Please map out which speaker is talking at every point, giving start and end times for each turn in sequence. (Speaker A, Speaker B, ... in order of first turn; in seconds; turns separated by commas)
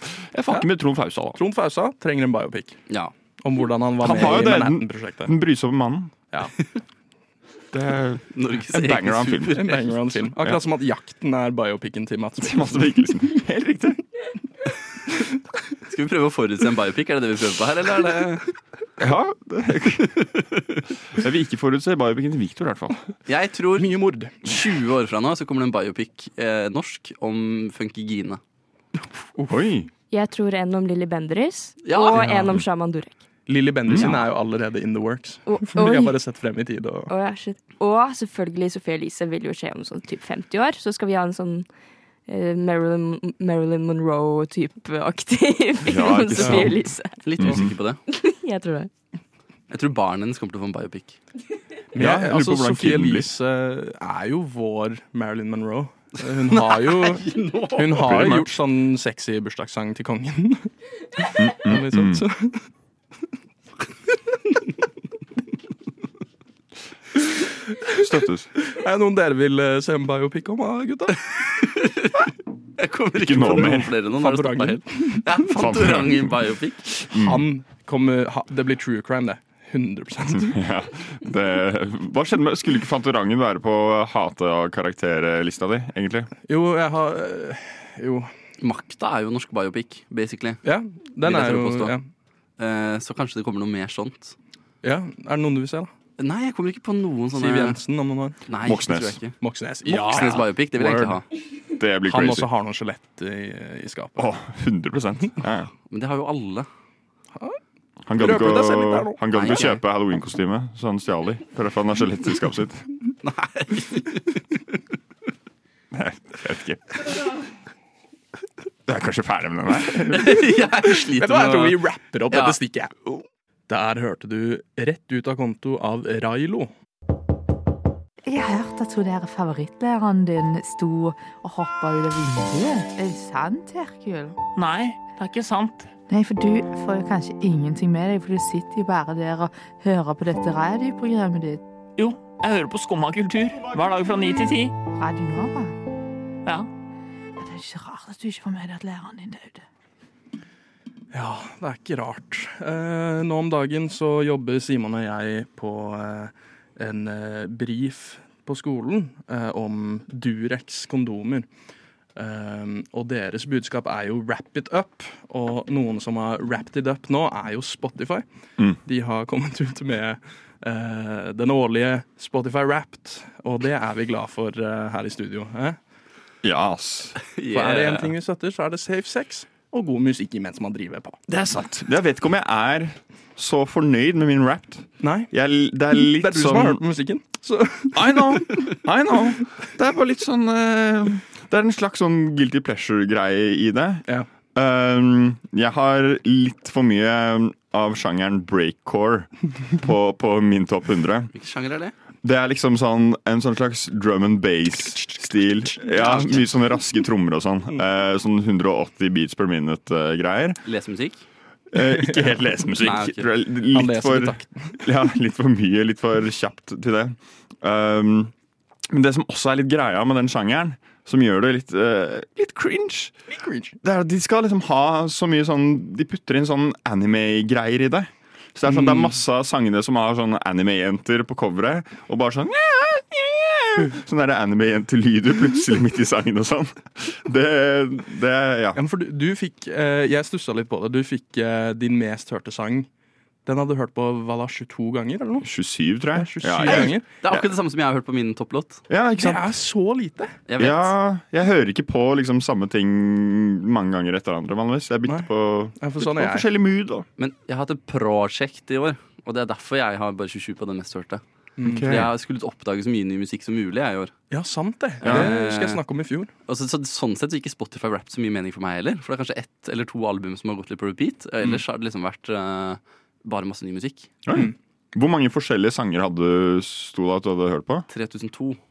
Speaker A: 0.3-1.4, Speaker B: 1.4-2.8, Speaker B: 3.4-5.3, Speaker A: 4.0-6.2, Speaker A: 7.7-9.6, Speaker C: 8.3-10.2, Speaker B: 9.6-12.9, Speaker A: 12.4-14.0, Speaker C: 15.9-18.5, Speaker A: 19.0-20.3, Speaker A: 21.1-23.1, Speaker C: 23.3-28.4, Speaker B: 23.8-24.6, Speaker A: 29.5-29.9, Speaker D: 30.1-33.1, Speaker C: 31.8-32.2, Speaker B: 32.2-32.5, Speaker B: 33.5-37.1, Speaker A: 33.9-34.1, Speaker D: 35.5-36.2, Speaker D: 37.1-41.7, Speaker D: 42.3-47.2, Speaker A: 45.8-47.7, Speaker C: 47.2-48.0, Speaker D: 48.1-48.9, Speaker C: 49.7-51.2, Speaker B: 51.9-60.7, Speaker A: 52.0-53.3, Speaker C: 56.5-58.3, Speaker A: 58.0-58.5, Speaker B: 61.2-62.7, Speaker A: 61.4-62.2, Speaker B: 67.2-68.0, Speaker A: 67.9-68.5, Speaker B: 68.5-71.2, Speaker C: 71.6-77.0, Speaker A: 73.2-73.9, Speaker B: 73.8-75.3, Speaker A: 75.5-76.4, Speaker A: 77.1-77.5, Speaker B: 77.1-80.6, Speaker A: 80.4-86.3, Speaker B: 86.5-88.3, Speaker C: 88.6-90.6, Speaker B: 90.6-92.1, Speaker C: 91.2-92.0, Speaker C: 92.6-94.4, Speaker B: 94.8-95.9, Speaker C: 96.2-97.8, Speaker B: 97.3-98.4, Speaker C: 98.5-101.3, Speaker A: 98.6-99.2, Speaker B: 99.4-101.2, Speaker A: 101.8-102.5, Speaker B: 102.0-104.3, Speaker A: 104.2-105.7, Speaker C: 105.9-106.7, Speaker A: 108.1-112.8, Speaker B: 108.2-109.2, Speaker C: 109.3-109.8, Speaker C: 113.2-114.4, Speaker A: 115.9-117.1, Speaker A: 118.9-120.5, Speaker C: 119.9-122.6, Speaker B: 120.8-126.7, Speaker E: 128.3-134.4, Speaker F: 134.5-135.9, Speaker E: 136.1-141.6, Speaker F: 142.0-144.7, Speaker E: 145.0-145.8, Speaker E: 147.4-149.6, Speaker B: 151.1-161.5, Speaker B: 162.2-168.2, Speaker B: 168.8-175.8, Speaker A: 176.4-177.2, Speaker C: 177.3-178.1, Speaker B: 177.5-181.2, Speaker A: 181.3-186.8, Speaker B: 185.0-185.3, Speaker B: 185.9-188.4, Speaker A: 187.9-201.3, Speaker C: 201.3-201.9, Speaker A: 202.2-210.6, Speaker C: 205.9-206.4, Speaker C: 210.7-211.2, Speaker A: 211.7-218.3, Speaker C: 212.8-213.3, Speaker B: 213.7-214.8, Speaker A: 218.9-223.1, Speaker B: 223.3-223.8, Speaker A: 223.8-238.8, Speaker B: 228.7-229.2, Speaker B: 238.8-242.9, Speaker B: 243.4-245.5, Speaker A: 245.4-247.4, Speaker B: 246.1-247.1, Speaker C: 246.7-248.8, Speaker A: 248.9-249.5, Speaker B: 249.2-250.4, Speaker C: 250.5-250.9, Speaker A: 250.6-257.1, Speaker B: 255.1-256.5, Speaker C: 257.2-261.2, Speaker B: 261.6-261.9, Speaker A: 261.6-262.1, Speaker C: 261.9-264.1, Speaker B: 264.3-266.3, Speaker A: 265.0-265.3, Speaker C: 265.0-265.8, Speaker C: 266.5-274.1, Speaker A: 274.2-277.9, Speaker C: 277.9-278.6